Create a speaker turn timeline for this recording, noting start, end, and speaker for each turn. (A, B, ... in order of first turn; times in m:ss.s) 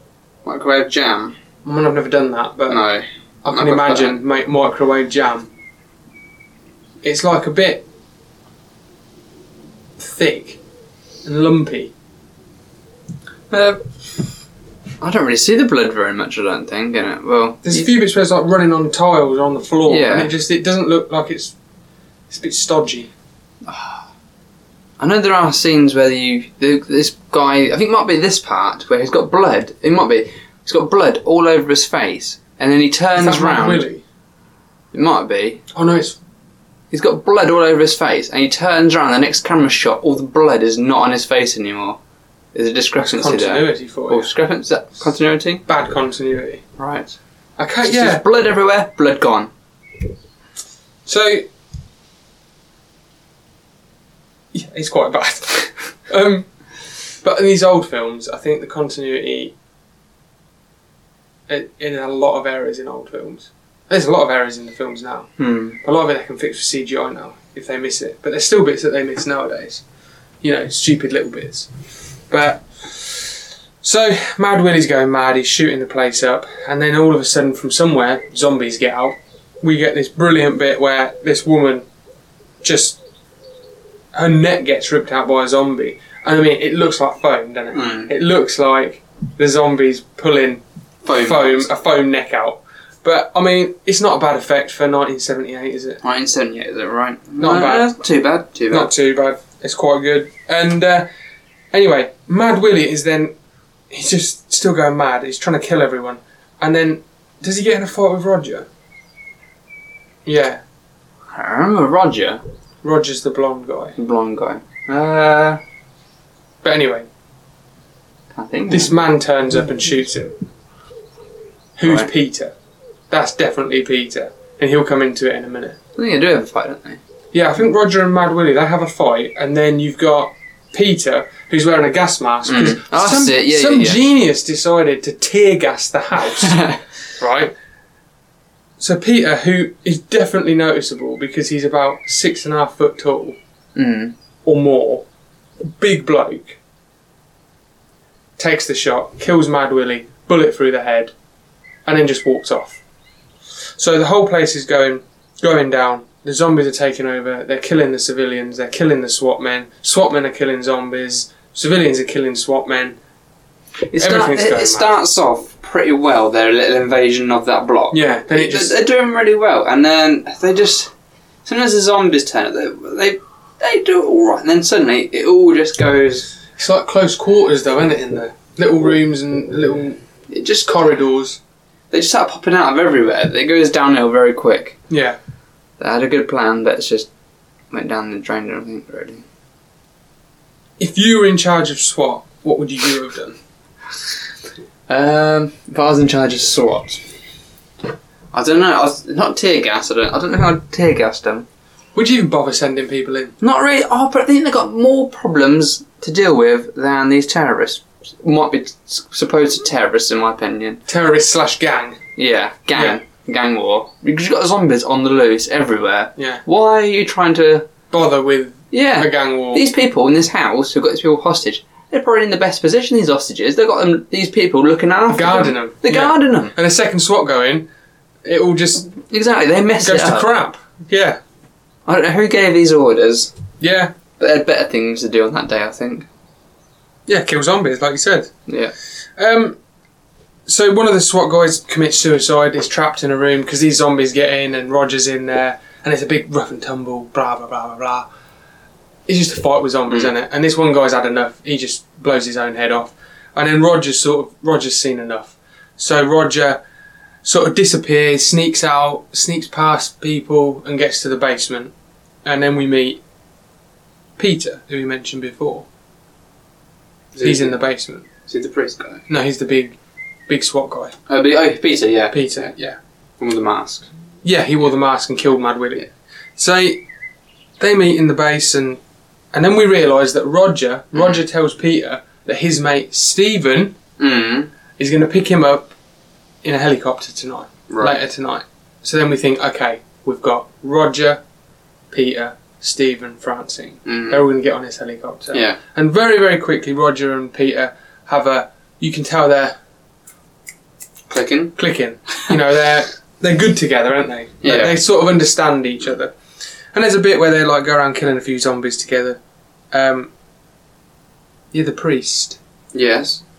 0:00.4-0:01.4 A
0:01.6-0:02.8 B
0:02.7-0:04.2 A
0:03.4-0:05.5 B
0:07.0-0:07.8 B
0:10.0-0:10.6 B
0:11.2-0:11.9 B
0:13.5-0:14.4 A
0:15.0-0:17.9 A
0:17.6-0:21.6 B
0:19.9-0:20.3 A
0:22.3-0:23.1 B
0:23.6-0:24.1 A
0:25.0-0:33.9 A
0:33.2-0:34.0 B
0:34.9-0:35.6 A
0:35.7-0:36.2 B
0:36.9-0:42.0 A
0:42.5-0:45.6 A
0:43.0-0:44.3 B
0:45.7-0:46.6 B
0:46.8-0:47.2 A
0:47.6-0:48.2 B
0:47.8-0:49.5 A
0:51.1-0:51.4 B
0:54.5-0:56.5 B
0:57.2-0:59.6 B
1:01.5-1:09.8 B
1:05.4-1:05.8 A
1:10.4-1:11.7 B
1:12.3-1:21.8 B
1:22.6-1:23.0 B
1:24.1-1:36.0 B
1:27.7-1:28.1 A
1:31.0-1:31.7 A
1:36.0-1:38.9 A
1:37.4-1:37.9 B
1:38.7-1:41.1 B
1:41.7-1:43.3 B
1:43.9-1:48.7 B
1:50.3-1:50.6 B
1:51.3-1:52.4 A
1:52.8-1:53.9 B
1:54.0-1:55.6 A
1:56.6-1:57.1 B
1:58.3-1:58.9 A
1:58.7-2:00.4 B
2:01.8-2:02.5 B
2:01.8-2:02.1 A
2:03.1-2:05.8 B
2:06.0-2:07.0 A
2:07.3-2:16.6 B
2:12.5-2:14.0 A
2:16.3-2:16.8 A
2:17.2-2:17.5 B
2:18.8-2:23.4 B
2:23.8-2:24.1 A
2:24.4-2:25.1 B
2:25.8-2:26.6 B
2:28.4-2:31.1 B
2:31.9-2:32.8 B
2:33.8-2:43.0 B
2:43.9-2:50.9 A
2:43.9-2:45.0 B
2:47.9-2:48.7 B
2:51.4-2:56.3 A
2:56.6-3:01.4 B
3:01.9-3:04.8 A
3:04.9-3:05.2 B
3:05.8-3:07.1 A
3:07.7-3:09.2 A
3:10.8-3:13.4 B
3:14.9-3:17.0 A
3:18.3-3:21.5 A
3:21.9-3:23.4 B
3:23.4-3:30.8 A
3:30.9-3:32.0 B
3:32.2-3:37.7 A
3:36.2-3:36.4 B
3:37.9-3:39.6 B
3:38.7-3:46.5 A
3:45.1-3:47.7 B
3:48.2-3:48.9 B
3:48.9-3:50.3 A
3:49.8-3:51.2 B
3:51.9-3:53.3 A
3:53.6-3:53.9 B
3:54.2-3:56.1 A
3:57.1-3:58.3 B
3:58.5-3:58.7 A
3:59.2-3:59.6 B
4:00.5-4:08.1 B
4:09.1-4:16.6 B
4:17.2-4:21.7 B
4:22.2-4:23.0 B
4:24.2-4:25.7 B
4:27.1-4:27.6 A
4:27.2-4:28.1 B
4:28.3-4:29.0 A
4:29.1-4:29.8 B
4:30.3-4:30.9 B
4:31.1-4:32.5 A
4:32.1-4:32.8 B
4:33.2-4:33.9 A
4:34.2-4:36.8 B
4:37.6-4:38.8 B
4:39.3-4:43.8 B
4:44.0-4:44.5 A
4:44.8-4:45.7 B
4:46.4-4:51.2 B
4:47.7-4:48.0 A
4:51.9-4:59.6 B
4:53.9-4:54.2 A
4:55.3-4:55.6 A
5:01.1-5:01.6 A
5:01.6-5:06.1 B
5:04.4-5:04.8 A
5:06.7-5:09.2 B
5:09.7-5:10.1 B
5:11.5-5:12.4 B
5:12.7-5:13.2 A